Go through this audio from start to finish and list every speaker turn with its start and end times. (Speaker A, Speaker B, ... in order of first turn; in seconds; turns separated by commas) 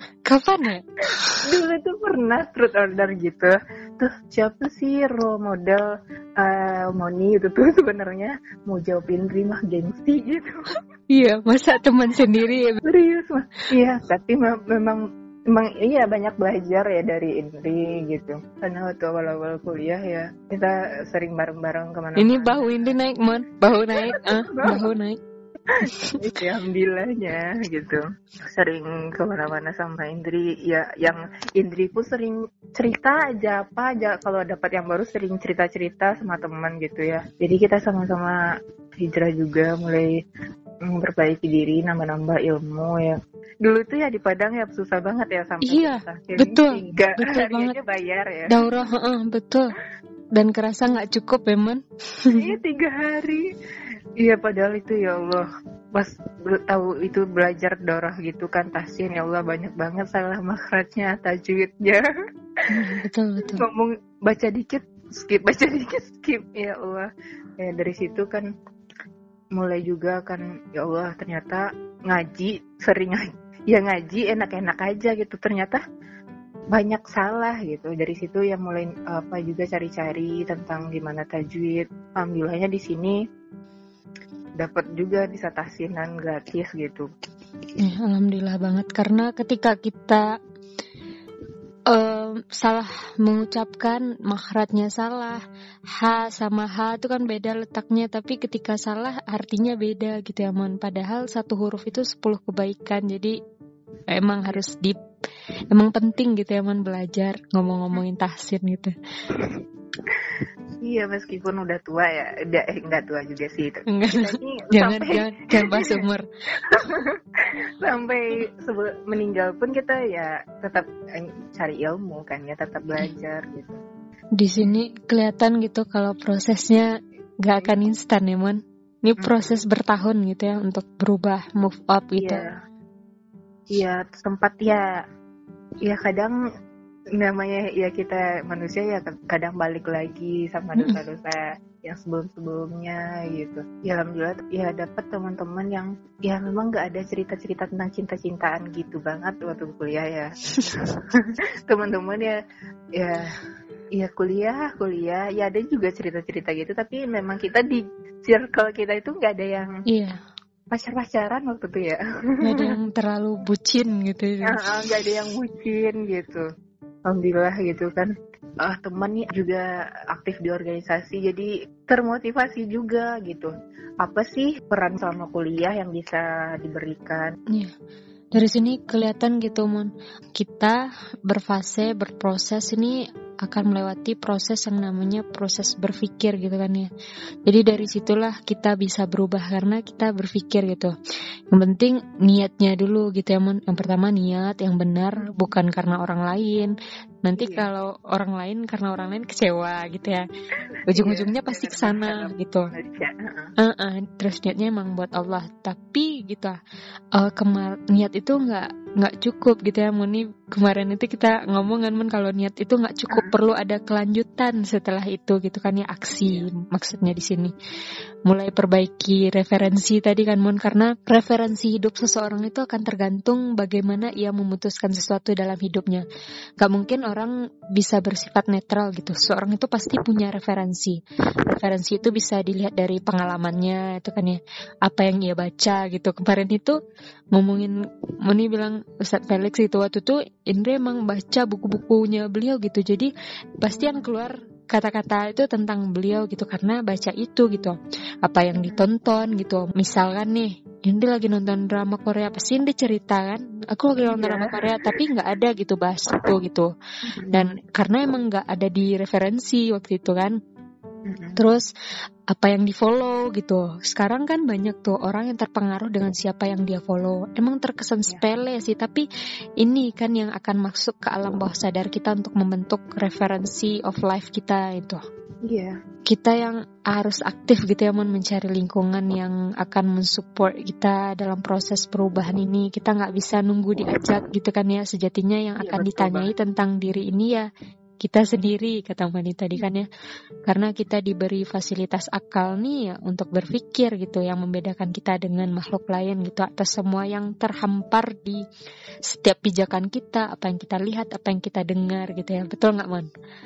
Speaker A: 0.2-1.4, Speaker B: 1.4-5.9, Speaker B: 6.4-10.5, Speaker A: 11.1-12.8, Speaker B: 12.8-23.0, Speaker A: 22.2-25.2, Speaker B: 24.1-24.8, Speaker B: 25.7-38.4, Speaker A: 25.8-26.1, Speaker B: 39.0-40.1, Speaker B: 40.9-48.5, Speaker A: 45.6-47.7, Speaker A: 48.5-49.7, Speaker A: 50.3-52.4, Speaker B: 52.4-53.4, Speaker B: 54.2-62.0, Speaker A: 62.7-63.6, Speaker B: 63.5-67.1, Speaker B: 67.6-68.5, Speaker B: 69.5-75.8, Speaker B: 76.7-83.2, Speaker B: 84.6-87.1, Speaker A: 87.8-90.2, Speaker A: 91.9-95.4, Speaker A: 96.0-103.3, Speaker A: 104.1-105.0, Speaker A: 105.7-108.9, Speaker B: 109.3-116.0, Speaker A: 113.9-116.2, Speaker B: 116.6-117.0, Speaker B: 117.8-123.8, Speaker A: 124.4-132.4, Speaker B: 129.2-129.6, Speaker B: 132.2-132.5, Speaker B: 133.7-134.9, Speaker B: 135.8-136.3, Speaker B: 137.2-151.0, Speaker B: 151.7-152.3, Speaker B: 152.9-153.3, Speaker B: 153.9-159.8, Speaker A: 159.9-160.2, Speaker B: 160.7-162.7, Speaker A: 162.4-164.7, Speaker B: 164.4-166.4, Speaker B: 167.1-177.3, Speaker A: 178.3-186.9, Speaker A: 187.4-190.9, Speaker A: 191.5-196.7, Speaker A: 197.2-200.2, Speaker B: 197.3-197.7, Speaker A: 200.9-202.7, Speaker B: 200.9-203.5, Speaker A: 203.6-206.6, Speaker A: 207.1-217.5, Speaker A: 218.2-226.0, Speaker A: 226.6-236.8, Speaker A: 237.3-243.1, Speaker A: 243.6-256.7, Speaker B: 248.5-248.8, Speaker B: 254.0-254.6, Speaker B: 257.1-257.5, Speaker A: 257.3-260.4, Speaker B: 261.1-261.4, Speaker A: 261.4-261.7, Speaker A: 262.3-269.1, Speaker A: 269.6-275.0, Speaker B: 275.5-275.7, Speaker A: 276.1-287.5, Speaker B: 285.6-286.3, Speaker A: 288.0-289.9, Speaker A: 290.5-298.4, Speaker A: 299.1-303.1